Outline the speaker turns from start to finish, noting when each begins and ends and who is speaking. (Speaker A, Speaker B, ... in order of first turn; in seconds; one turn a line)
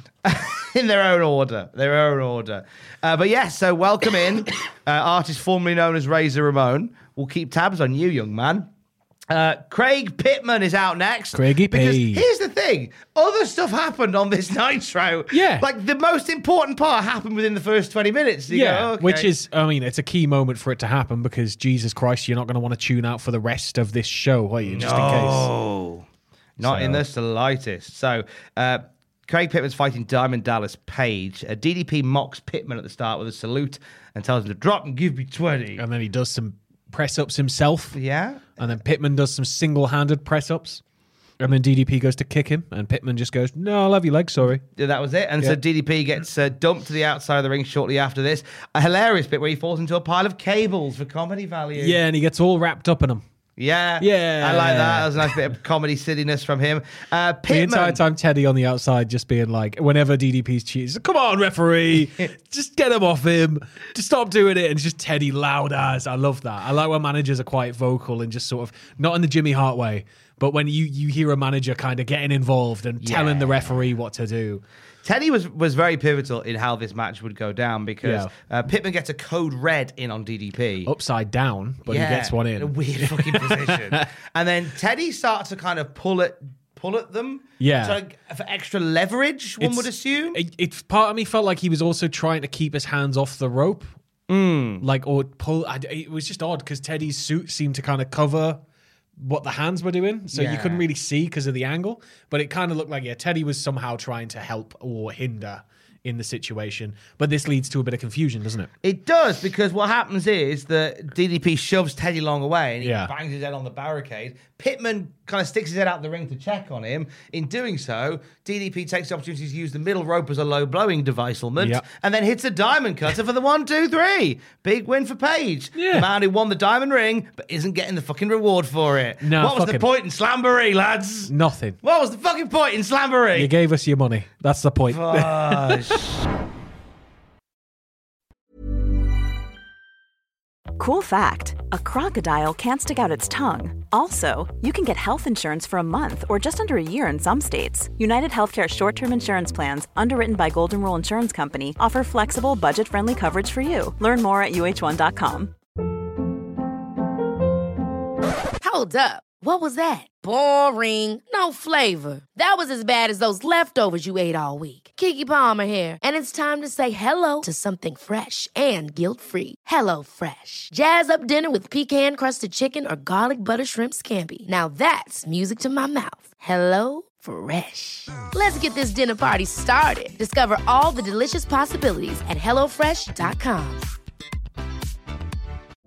Speaker A: 0.2-8.7
Speaker A: 9.3-19.3
Speaker B: 11.3-12.2
Speaker B: 15.3-15.7
Speaker B: 18.5-25.5
Speaker A: 24.6-26.1
Speaker A: 26.6-35.8
Speaker B: 26.6-27.0
Speaker B: 35.8-38.0
Speaker A: 37.9-38.6
Speaker B: 38.6-40.8
Speaker B: 41.4-44.6
Speaker A: 44.8-52.0
Speaker B: 51.8-53.2
Speaker A: 53.6-58.0
Speaker B: 54.0-55.4
Speaker B: 57.5-74.6
Speaker A: 73.0-73.9
Speaker A: 75.0-80.9
Speaker B: 78.0-78.3
Speaker B: 80.8-84.1
Speaker A: 81.8-90.4
Speaker B: 87.6-88.0
Speaker B: 89.6-93.9
Speaker A: 94.3-94.8
Speaker B: 94.8-98.6
Speaker B: 99.2-108.7
Speaker A: 100.3-100.8
Speaker A: 108.8-133.5
Speaker B: 112.8-113.1
Speaker B: 121.6-121.8
Speaker B: 125.8-126.1
Speaker B: 129.2-129.9
Speaker B: 131.3-131.8
Speaker B: 133.3-136.0
Speaker A: 134.9-136.2
Speaker C: 140.8-155.5
Speaker D: 158.6-183.9